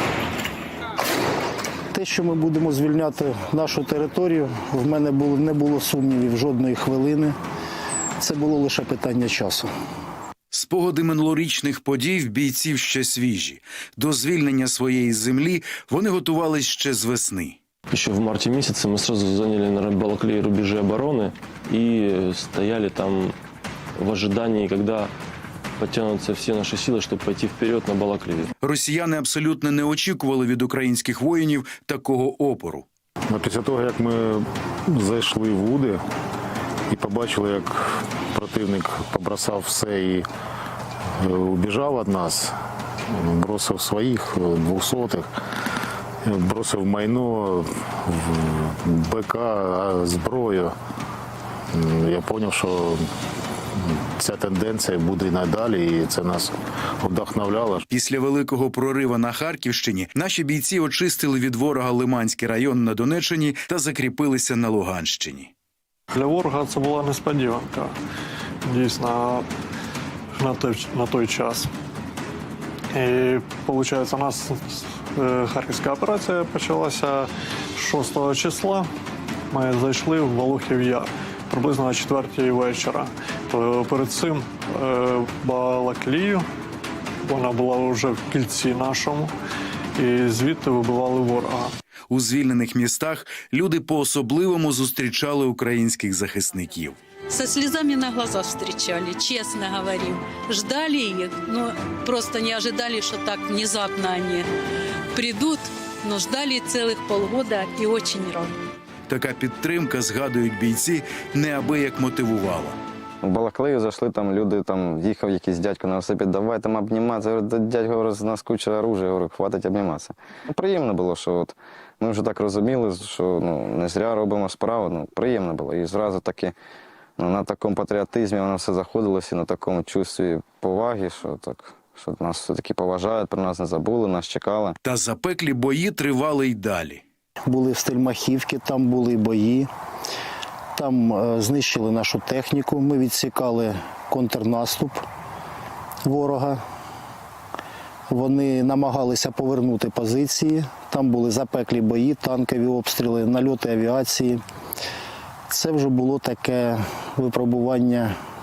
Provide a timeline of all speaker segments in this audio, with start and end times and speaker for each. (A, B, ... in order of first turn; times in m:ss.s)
0:01.9-0:07.4 A
0:08.2-0:09.7 A
0:10.5-0:17.6 B
0:17.9-0:23.4 C
0:24.0-0:25.1 C
0:25.8-0:28.5 C
0:28.6-0:32.9 B
0:33.3-0:36.0 D
0:36.9-0:40.3 D
0:41.2-0:42.5 D
0:43.1-0:45.3 D
0:46.2-0:50.8 D
0:51.7-0:53.0 D
0:53.8-0:57.9 D
0:57.9-1:05.5 B
1:06.1-1:07.9 E
1:08.6-1:09.5 E
1:10.4-1:11.7 E
1:12.9-1:18.9 E
1:19.5-1:26.4 E
1:27.3-1:29.3 E
1:30.0-1:31.7 E
1:32.1-1:37.0 B
1:37.3-1:44.5 F
1:45.2-1:48.5 F
1:49.1-1:52.8 B
1:53.2-2:06.5 G
2:07.2-2:14.8 G
2:14.8-2:17.0 B
2:17.5-2:19.7 A
2:20.8-2:25.0 A
2:26.0-2:26.6 A
2:28.1-2:34.4 A
2:35.5-2:38.1 A